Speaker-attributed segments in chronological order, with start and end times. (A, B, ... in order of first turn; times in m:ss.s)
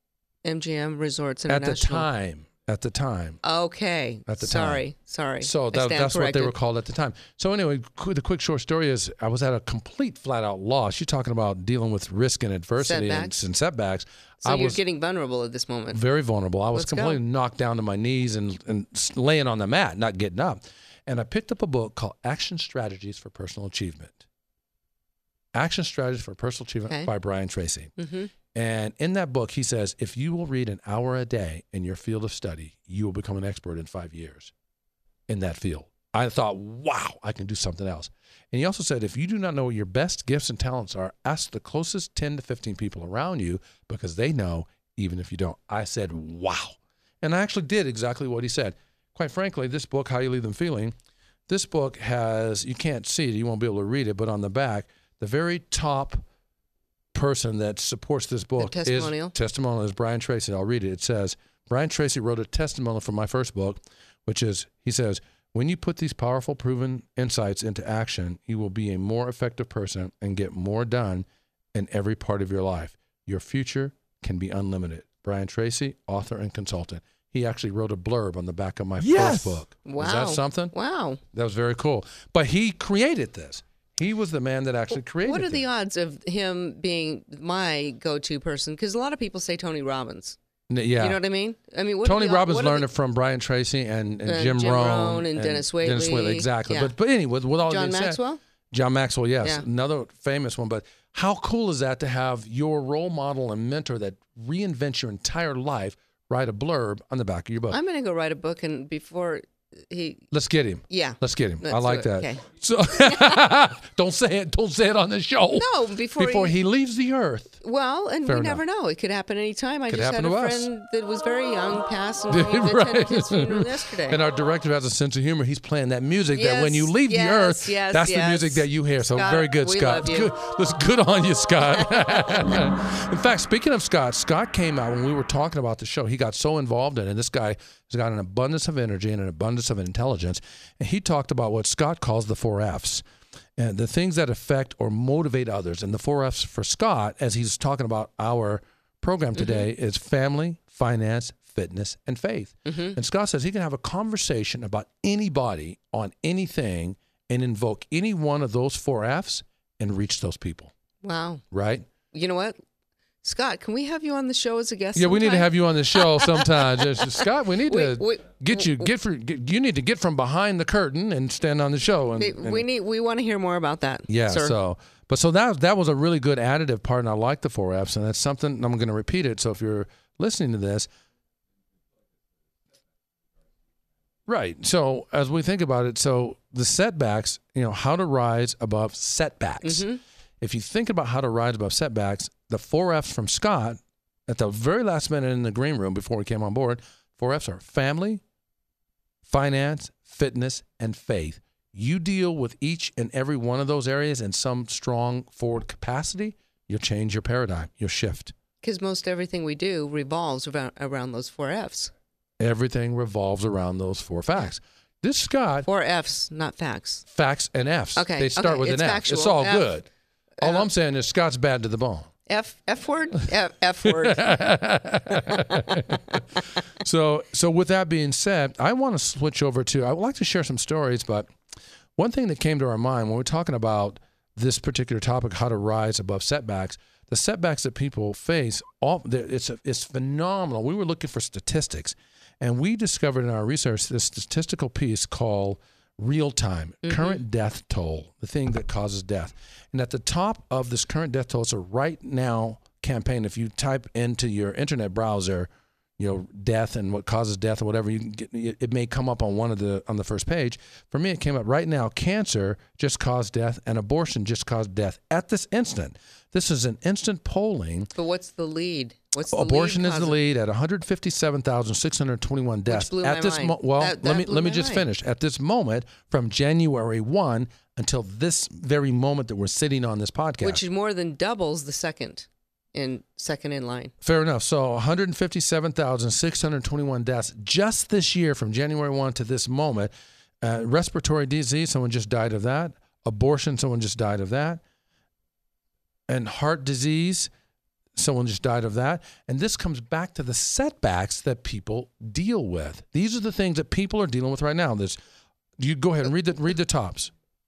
0:00.4-0:02.1 A
0:01.5-0:03.4 B
0:03.4-0:06.6 A
0:04.3-0:04.8 B
0:05.4-0:14.8 B
0:12.8-0:13.4 A
0:14.4-0:16.0 A
0:15.9-0:24.2 B
0:16.7-0:17.2 A
0:25.5-0:27.9 B
0:28.0-0:28.3 A
0:28.5-0:34.5 B
0:35.3-0:50.9 B
0:51.5-0:56.2 B
0:57.1-1:20.7 B
0:58.6-0:59.4 A
1:19.2-1:21.2 A
1:21.3-1:25.6 B
1:25.2-1:30.4 A
1:30.7-1:31.2 B
1:31.0-1:32.9 A
1:32.0-1:38.2 B
1:34.3-1:36.9 A
1:37.7-1:38.4 A
1:38.7-1:47.8 B
1:47.7-1:50.2 A
1:50.3-1:57.6 B
1:50.9-1:52.4 A
1:55.6-1:56.6 A
1:57.6-2:04.2 A
1:58.2-1:58.6 B
1:59.9-2:00.7 B
2:02.3-2:23.0 B
2:06.3-2:10.3 A
2:23.6-2:40.7 B
2:29.4-2:29.6 A
2:32.7-2:33.0 A
2:41.0-2:41.4 A
2:41.5-2:41.9 B
2:42.1-2:42.6 A
2:43.2-2:48.9 A
2:45.0-2:52.6 B
2:52.2-2:54.5 A
2:54.1-3:00.9 B
3:04.3-3:09.9 B
3:09.6-3:10.0 A
3:10.4-3:18.2 B
3:19.2-3:28.3 B
3:28.6-3:31.9 A
3:32.4-3:35.7 B
3:35.6-3:37.0 A
3:37.1-3:39.9 B
3:38.0-3:39.7 A
3:40.4-3:40.6 A
3:40.4-3:42.1 B
3:42.3-3:44.2 A
3:43.8-3:51.3 B
3:52.0-4:27.9 B
4:06.8-4:07.2 A
4:28.0-4:30.2 A
4:29.3-4:40.6 B
4:32.7-4:34.9 A
4:40.4-4:43.9 A
4:44.0-4:54.6 B
4:56.1-4:57.3 B
4:58.0-5:05.0 B
5:05.6-5:07.1 B